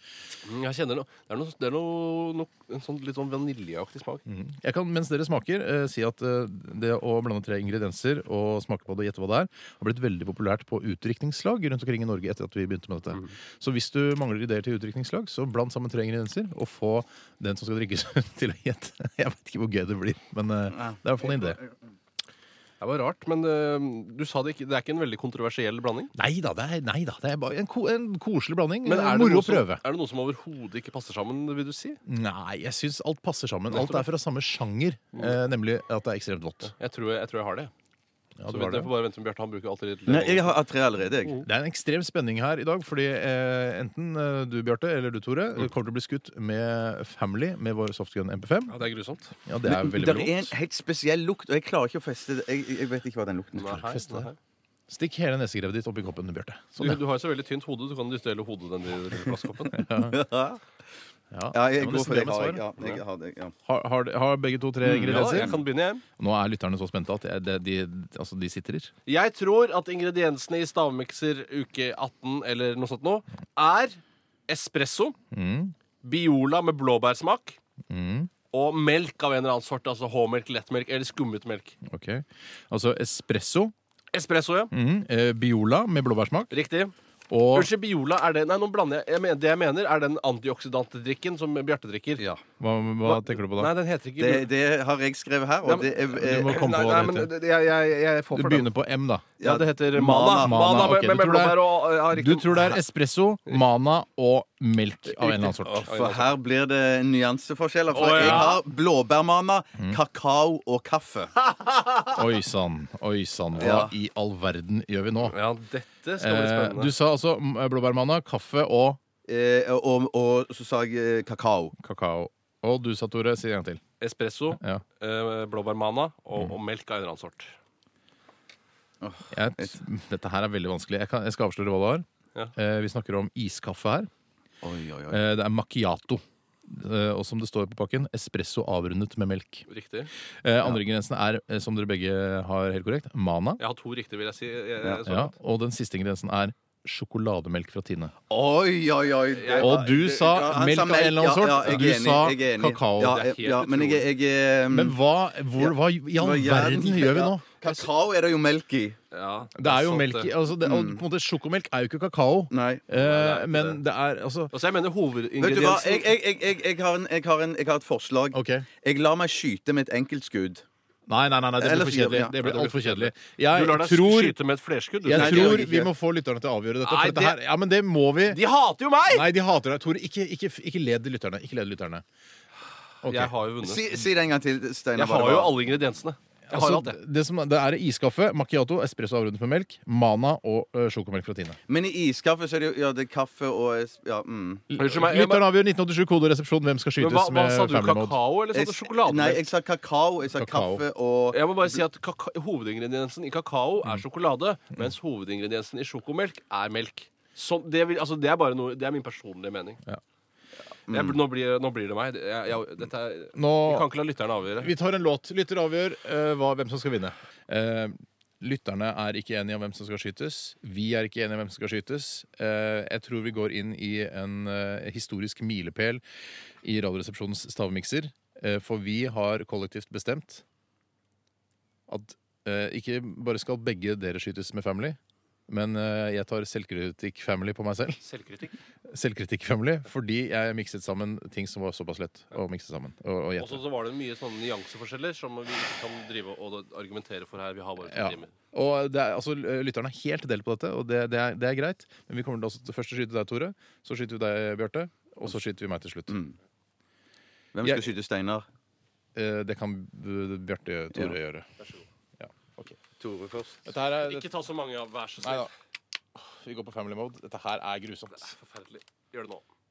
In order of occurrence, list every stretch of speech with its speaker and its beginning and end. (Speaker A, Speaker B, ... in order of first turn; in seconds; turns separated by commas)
Speaker A: 0.4-4.2, Speaker B: 4.2-21.6, Speaker C: 20.8-21.6, Speaker A: 22.8-26.1, Speaker B: 26.1-29.8, Speaker A: 28.8-32.0, Speaker B: 32.0-36.7, Speaker A: 33.7-34.1, Speaker A: 35.1-35.4, Speaker A: 36.6-37.7, Speaker B: 38.4-38.9, Speaker A: 38.5-40.6, Speaker C: 40.1-41.4, Speaker A: 41.2-41.5, Speaker B: 41.4-48.8, Speaker A: 48.7-49.3, Speaker B: 49.5-50.5, Speaker C: 49.7-53.7, Speaker A: 53.5-54.4, Speaker B: 53.6-54.3, Speaker B: 54.9-57.0, Speaker A: 56.8-59.9, Speaker B: 59.7-60.2, Speaker C: 60.0-60.6, Speaker B: 61.3-62.6, Speaker C: 61.5-63.5, Speaker B: 63.6-65.5, Speaker C: 64.8-65.6, Speaker A: 65.0-66.0, Speaker B: 66.2-68.9, Speaker A: 69.0-75.2, Speaker B: 75.3-75.7, Speaker A: 76.0-77.6, Speaker B: 77.9-78.3, Speaker A: 78.5-81.7, Speaker B: 81.8-83.7, Speaker A: 84.1-84.7, Speaker B: 84.7-86.5, Speaker A: 86.5-86.9, Speaker B: 87.3-87.7, Speaker A: 87.5-92.2, Speaker C: 92.2-92.4, Speaker B: 92.6-93.7, Speaker A: 93.0-94.5, Speaker C: 94.2-96.5, Speaker A: 95.6-98.7, Speaker B: 96.0-97.3, Speaker B: 98.3-99.3, Speaker A: 99.4-102.8, Speaker C: 99.4-100.5, Speaker B: 100.3-105.9, Speaker A: 105.0-106.3, Speaker C: 105.9-111.3, Speaker A: 107.9-108.6, Speaker B: 108.1-108.6, Speaker B: 112.1-115.3, Speaker C: 113.6-113.9, Speaker A: 115.2-116.9, Speaker B: 116.2-119.0, Speaker C: 119.3-121.7, Speaker B: 121.8-123.8, Speaker A: 124.0-127.5, Speaker B: 124.5-124.8, Speaker C: 129.0-129.7, Speaker B: 129.3-134.1, Speaker C: 134.6-135.2, Speaker B: 135.1-139.7, Speaker A: 139.7-140.1, Speaker B: 140.4-143.6, Speaker A: 143.6-145.3, Speaker B: 145.0-148.1, Speaker C: 148.3-155.0, Speaker A: 149.3-149.8, Speaker B: 149.5-153.2, Speaker A: 153.0-154.1, Speaker B: 154.7-157.4, Speaker C: 155.6-159.0, Speaker A: 159.1-160.3, Speaker B: 159.5-164.5, Speaker C: 160.6-161.0, Speaker C: 162.5-162.8, Speaker A: 162.9-163.8, Speaker A: 164.5-166.1, Speaker C: 165.4-170.6, Speaker B: 168.3-168.7, Speaker B: 171.1-174.4, Speaker C: 171.6-172.3, Speaker A: 172.4-175.7, Speaker B: 175.0-178.4, Speaker C: 175.1-175.9, Speaker A: 176.8-177.4, Speaker A: 178.3-179.3, Speaker B: 179.1-182.0, Speaker B: 183.0-183.3, Speaker A: 183.0-184.1, Speaker C: 183.6-185.6, Speaker A: 184.9-187.0, Speaker B: 186.5-191.6, Speaker C: 191.7-194.6, Speaker B: 194.7-198.2, Speaker A: 194.8-195.5, Speaker A: 197.0-199.5, Speaker C: 198.5-201.8, Speaker B: 200.3-200.8, Speaker A: 201.3-209.8, Speaker C: 210.9-211.2, Speaker A: 210.9-214.7, Speaker B: 213.3-213.9, Speaker B: 214.6-226.0, Speaker B: 226.6-230.4, Speaker B: 231.9-238.0, Speaker A: 238.0-238.5, Speaker B: 238.9-243.6, Speaker A: 243.4-248.3, Speaker B: 247.8-256.2, Speaker C: 256.1-256.4, Speaker C: 257.5-258.4, Speaker B: 259.1-261.5, Speaker B: 262.2-262.8, Speaker C: 263.0-263.6, Speaker B: 263.6-264.3, Speaker A: 264.0-265.5, Speaker B: 265.2-265.5, Speaker B: 266.2-268.3, Speaker A: 268.1-269.4